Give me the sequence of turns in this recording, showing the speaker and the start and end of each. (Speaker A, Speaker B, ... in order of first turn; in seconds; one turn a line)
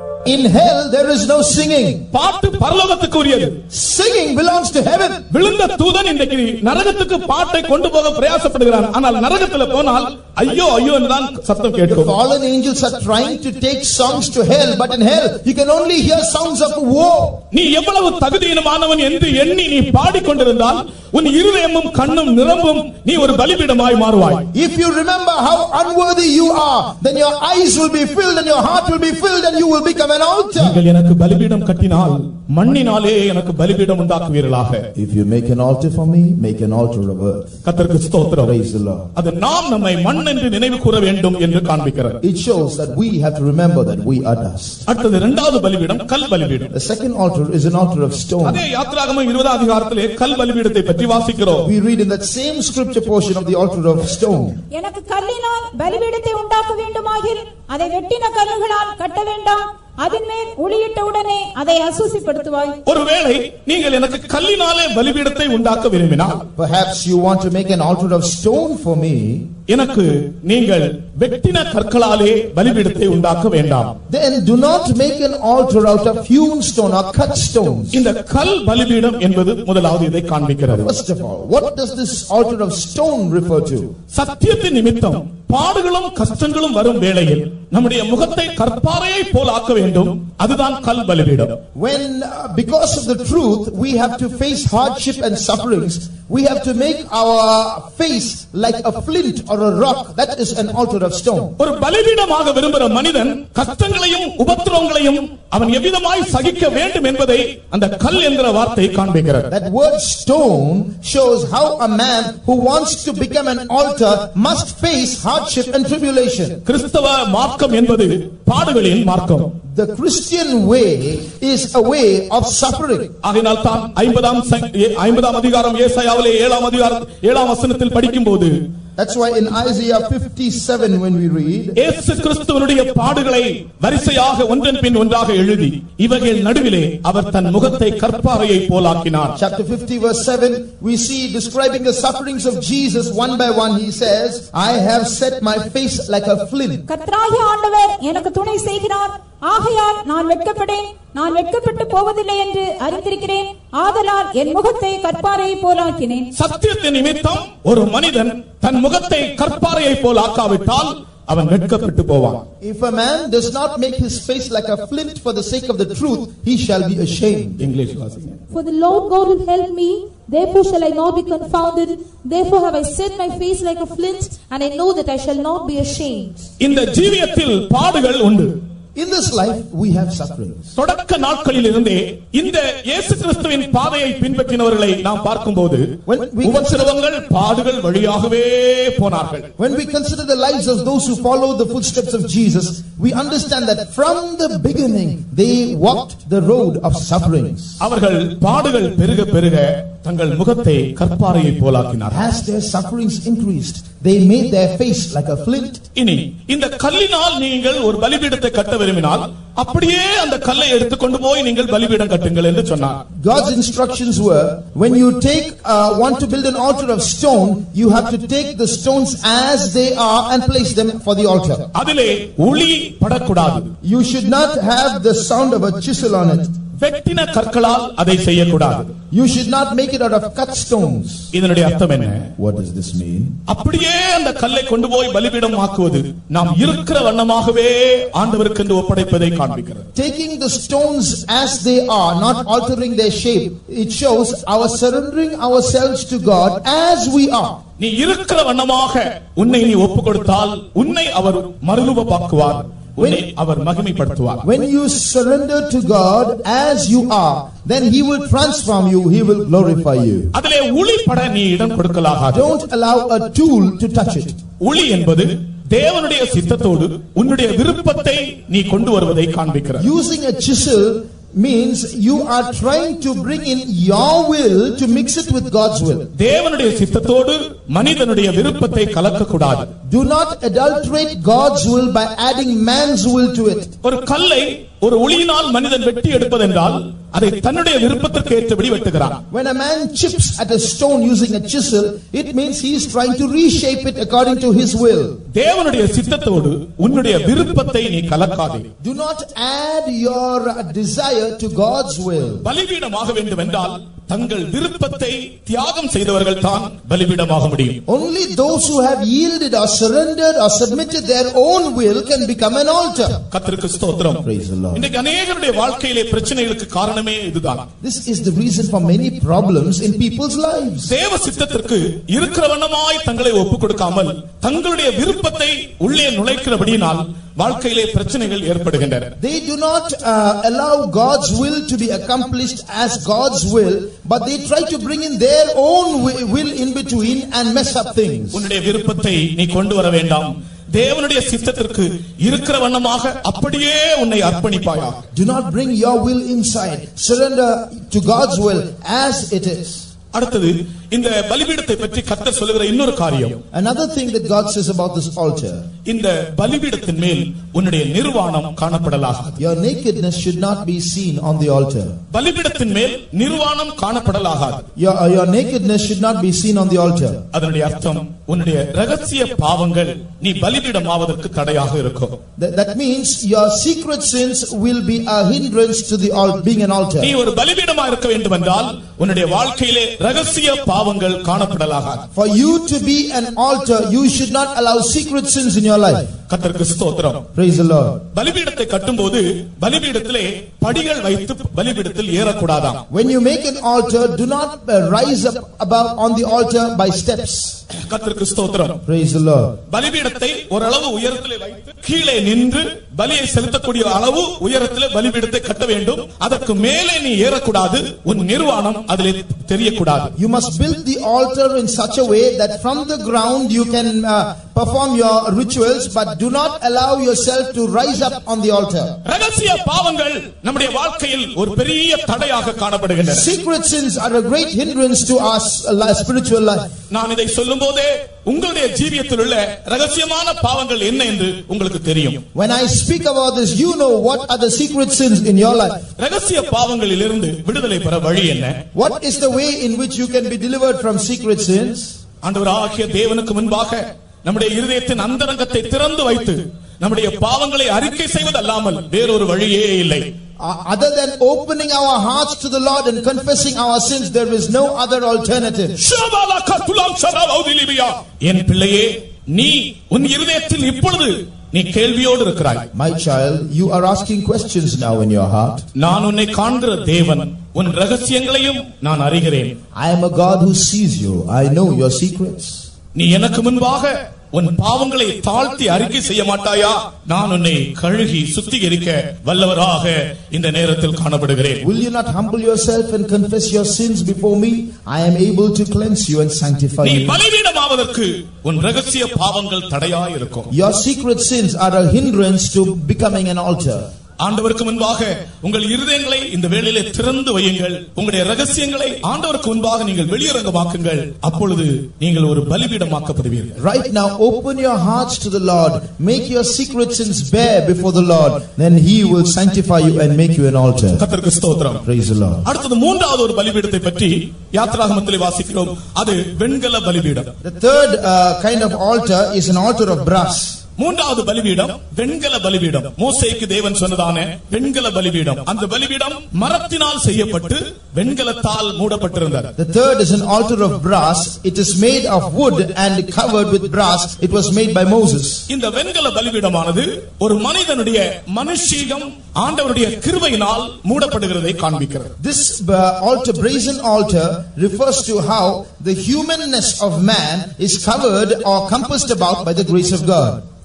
Speaker A: 0.2-2.0
Speaker B: 2.1-3.6
Speaker A: 3.7-5.3
Speaker B: 5.3-12.1
Speaker A: 11.9-17.4
Speaker B: 17.5-24.5
Speaker A: 24.5-30.8
Speaker B: 30.6-34.9
Speaker A: 35.0-37.6
Speaker B: 37.6-38.5
Speaker A: 38.5-39.1
Speaker B: 39.1-42.2
Speaker A: 42.2-44.8
Speaker B: 44.9-46.7
Speaker A: 46.7-48.6
Speaker B: 48.4-51.7
Speaker A: 51.6-54.6
Speaker C: 54.7-62.8
Speaker B: 62.9-66.5
Speaker A: 66.6-69.5
Speaker B: 69.7-74.0
Speaker A: 74.1-78.0
Speaker B: 77.9-80.9
Speaker A: 80.7-83.9
Speaker B: 84.1-91.6
Speaker A: 91.8-101.5
Speaker B: 101.6-109.5
Speaker A: 109.5-116.6
Speaker B: 116.7-119.5
Speaker A: 119.7-123.1
Speaker B: 123.2-128.5
Speaker A: 129.0-131.8
Speaker B: 131.8-139.4
Speaker A: 139.3-146.8
Speaker C: 146.9-156.3
Speaker B: 156.3-162.4
Speaker A: 162.6-167.7
Speaker B: 167.6-168.4
Speaker D: 168.5-176.5
Speaker B: 176.6-178.6
Speaker A: 179.0-180.7
Speaker B: 180.8-185.9
Speaker A: 186.1-186.9
Speaker B: 186.4-189.5
Speaker A: 189.6-197.8
Speaker B: 197.8-202.3
Speaker A: 202.1-205.8
Speaker B: 206.0-213.0
Speaker A: 213.2-221.7
Speaker B: 221.8-223.7
Speaker A: 223.8-226.6
Speaker B: 226.8-228.9
Speaker A: 229.1-231.3
Speaker B: 231.3-232.3
Speaker A: 232.4-233.4
Speaker B: 233.5-239.9
Speaker A: 239.9-247.6
Speaker B: 247.8-254.4
Speaker A: 253.0-253.3
Speaker A: 254.4-260.3
Speaker B: 260.3-262.5
Speaker A: 262.3-264.4
Speaker B: 264.6-269.9
Speaker A: 269.8-276.1
Speaker B: 276.2-279.7
Speaker A: 279.9-283.7
Speaker B: 283.8-289.2
Speaker A: 289.3-295.2
Speaker B: 295.3-298.7
Speaker A: 298.8-302.5
Speaker B: 302.4-307.8
Speaker A: 307.9-313.2
Speaker B: 313.3-314.2
Speaker A: 314.2-314.9
Speaker B: 314.8-317.7
Speaker A: 317.8-320.9
Speaker B: 320.9-329.1
Speaker A: 329.2-338.5
Speaker B: 338.3-345.0
Speaker A: 345.1-349.9
Speaker B: 350.1-353.4
Speaker A: 353.5-355.7
Speaker B: 355.9-359.4
Speaker A: 359.4-362.0
Speaker B: 362.1-364.7
Speaker A: 364.8-367.2
Speaker B: 367.3-372.2
Speaker A: 372.4-377.1
Speaker B: 377.0-382.1
Speaker A: 382.1-386.1
Speaker B: 386.3-387.3
Speaker A: 387.4-388.0
Speaker B: 388.1-392.8
Speaker A: 392.9-397.6
Speaker B: 397.9-398.8
Speaker A: 398.9-399.6
Speaker B: 399.7-410.1
Speaker A: 410.2-419.0
Speaker B: 419.1-423.3
Speaker A: 423.1-426.7
Speaker B: 426.9-432.2
Speaker A: 432.4-435.9
Speaker B: 436.0-438.6
Speaker A: 438.8-442.0
Speaker B: 442.2-450.1
Speaker A: 450.4-455.8
Speaker B: 455.8-462.7
Speaker A: 462.7-465.6
Speaker B: 465.8-469.6
Speaker A: 469.8-472.6
Speaker B: 472.9-481.6
Speaker A: 481.6-487.2
Speaker B: 486.8-490.5
Speaker A: 490.5-493.9
Speaker B: 494.2-503.6
Speaker A: 503.6-511.0
Speaker B: 511.0-511.8
Speaker A: 511.8-512.4
Speaker B: 512.5-517.3
Speaker A: 517.4-520.6
Speaker B: 520.8-529.5
Speaker A: 529.6-535.5
Speaker B: 535.5-542.1
Speaker A: 542.2-550.4